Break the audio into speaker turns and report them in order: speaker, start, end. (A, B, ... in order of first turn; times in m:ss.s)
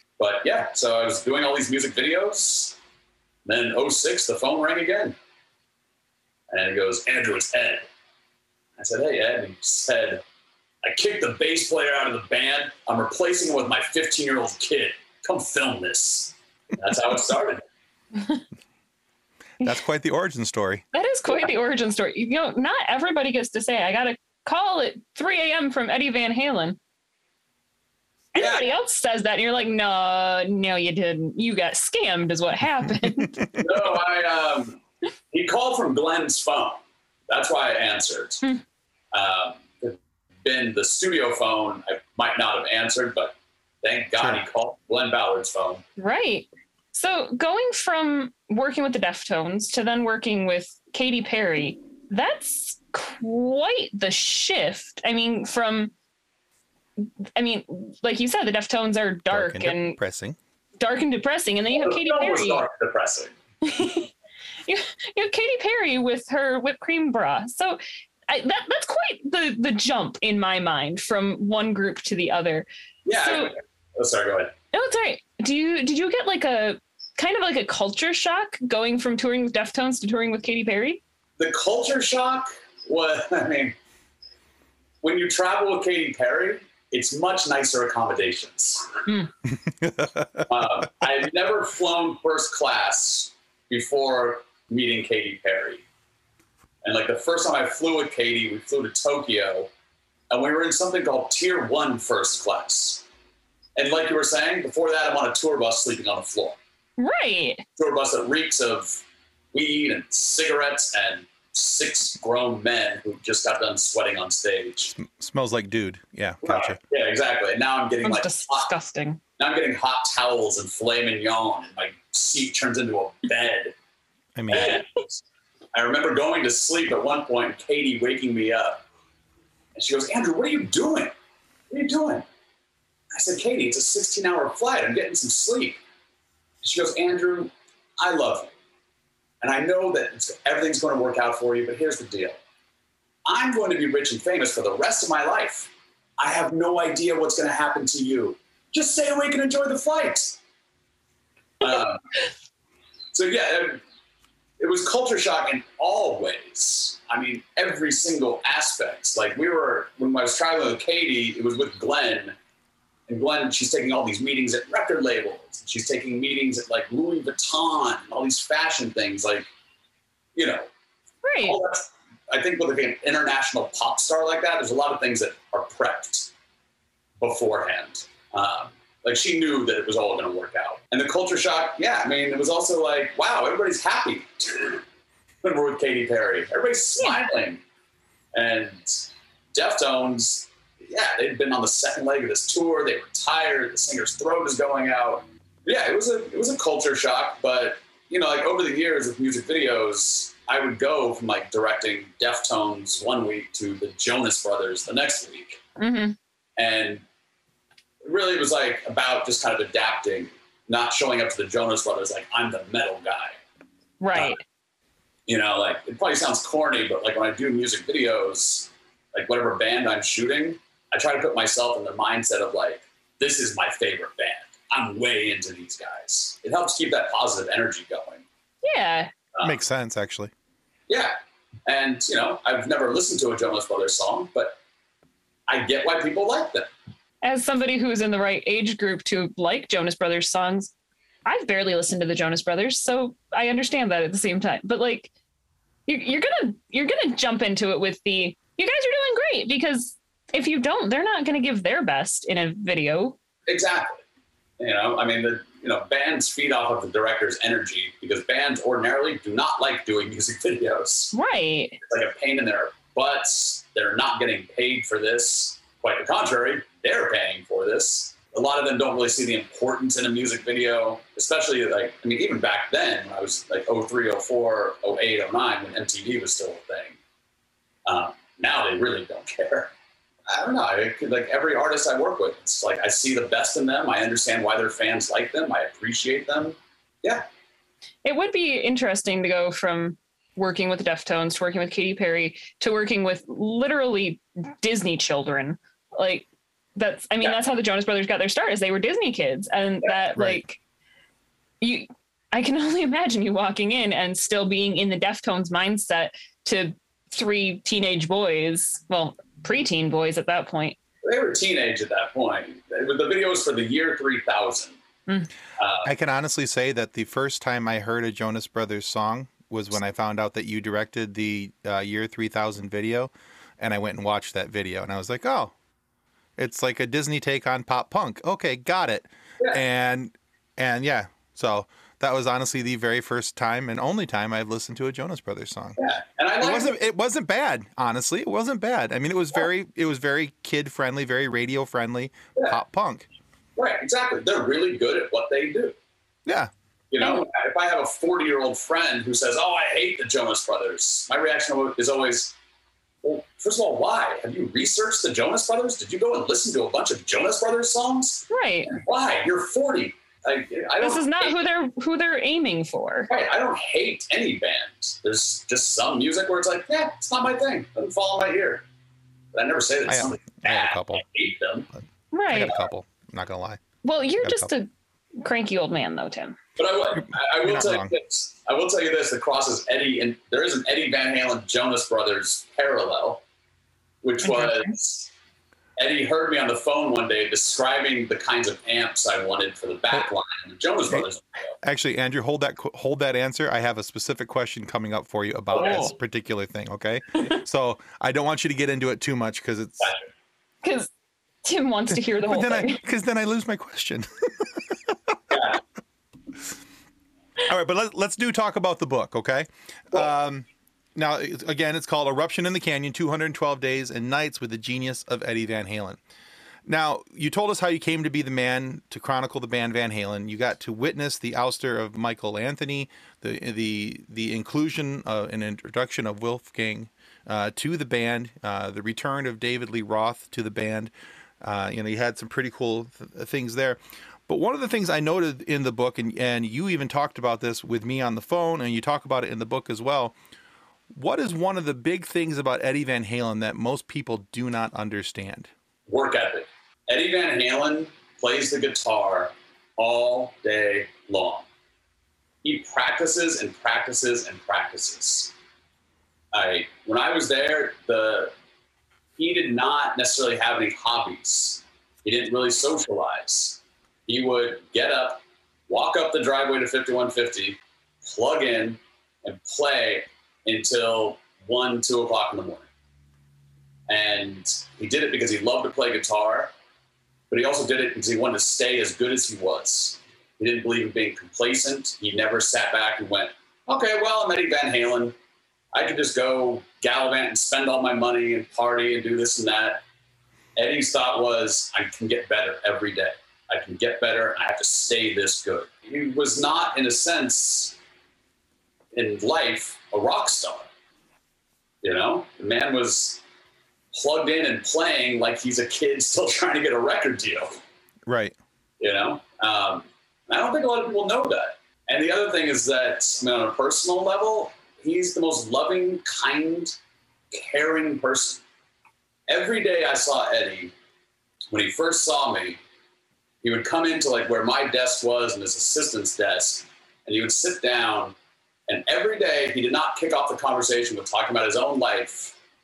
0:00.2-0:02.8 A
0:03.4-0:05.2 A
0:06.5-0:07.9 A
0:08.8-0:10.2 A
0:10.8-0:17.6 A
0:18.2-0:18.4 B
0:19.6-0:20.8 C
0:20.9-0:26.8 B
0:28.3-0:33.4 B
0:28.4-0:28.7 A
0:33.5-0:34.8 A
0:35.3-0:38.4 A
0:39.1-0:45.8 A
0:46.0-0:55.9 B
0:57.0-1:00.0 B
0:59.3-1:00.4 C
1:00.8-1:02.6 B
1:01.7-1:03.3 A
1:03.6-1:04.1 B
1:04.6-1:13.5 B
1:13.0-1:14.5 A
1:14.7-1:21.0 B
1:21.4-1:23.8 A
1:25.0-1:29.0 A
1:29.5-1:30.5 C
1:30.4-1:35.8 A
1:36.8-1:39.7 A
1:40.3-1:43.0 A
1:43.8-1:46.6 A
1:47.0-1:47.6 B
1:47.8-1:55.0 A
1:55.0-1:56.8 C
1:56.4-1:58.7 A
1:58.0-1:59.2 B
1:59.4-2:03.7 A
2:04.3-2:04.8 C
2:04.5-2:05.2 A
2:05.7-2:08.8 A
2:09.7-2:11.1 A
2:11.7-2:12.2 A
2:13.1-2:15.8 A
2:16.6-2:18.5 A
2:19.4-2:22.4 A
2:23.2-2:30.4 A
2:31.6-2:32.0 A
2:33.1-2:33.8 A
2:34.6-2:42.3 A
2:43.1-2:49.5 A
2:50.4-2:50.7 A
2:51.2-2:51.6 B
2:51.4-2:56.3 A
2:57.2-3:04.8 A
3:05.4-3:07.6 A
3:08.3-3:25.6 A
3:25.8-3:26.2 B
3:26.6-3:27.0 A
3:28.0-3:33.4 A
3:34.0-3:34.4 B
3:34.1-3:34.4 A
3:35.3-3:48.2 A
3:48.6-3:49.1 B
3:49.4-3:50.3 C
3:50.9-3:51.1 A
3:51.6-3:54.6 A
3:55.5-3:56.7 A
3:57.2-4:00.7 B
4:01.2-4:05.1 B
4:05.9-4:13.2 B
4:13.5-4:14.0 A
4:14.6-4:21.1 A
4:21.1-4:21.8 B
4:21.8-4:37.0 A
4:37.8-4:39.7 A
4:40.3-4:47.2 A
4:48.0-5:00.6 B
5:00.1-5:00.4 C
5:01.6-5:10.8 B
5:11.0-5:14.8 A
5:15.6-5:15.9 A
5:15.8-5:25.5 C
5:26.4-5:35.8 C
5:35.8-5:36.8 A
5:36.4-5:43.1 C
5:43.6-5:45.8 A
5:46.2-5:46.5 C
5:46.9-5:52.3 A
5:53.0-6:01.3 A
5:58.3-5:58.7 B
6:00.8-6:03.1 B
6:03.1-6:08.6 A
6:09.3-6:11.7 A
6:09.9-6:11.0 C
6:12.1-6:12.6 B
6:12.3-6:13.6 C
6:13.8-6:16.4 B
6:14.2-6:14.5 C
6:16.6-6:23.2 A
6:17.0-6:17.9 C
6:24.0-6:25.1 A
6:24.2-6:24.7 B
6:25.8-6:31.6 A
6:31.6-6:39.9 C
6:35.5-6:35.9 A
6:35.6-6:35.9 B
6:39.8-6:40.1 A
6:40.6-6:40.9 B
6:41.4-6:42.8 B
6:42.3-6:45.2 C
6:45.3-6:45.6 A
6:47.4-6:56.0 C
6:56.6-7:20.1 C
7:20.9-7:25.5 C
7:25.9-7:31.4 A
7:32.4-7:35.3 A
7:36.3-7:38.3 A
7:39.2-7:52.7 A
7:53.9-7:56.5 A
7:57.3-8:05.1 A
8:05.7-8:09.8 A
8:10.6-8:17.8 A
8:18.9-8:20.7 A
8:21.8-8:23.2 A
8:23.9-8:27.5 A
8:28.0-8:28.4 C
8:28.8-8:36.8 A
8:37.3-8:38.4 A
8:39.3-8:40.7 A
8:41.5-8:42.6 A
8:43.4-8:48.2 A
8:48.7-8:52.3 A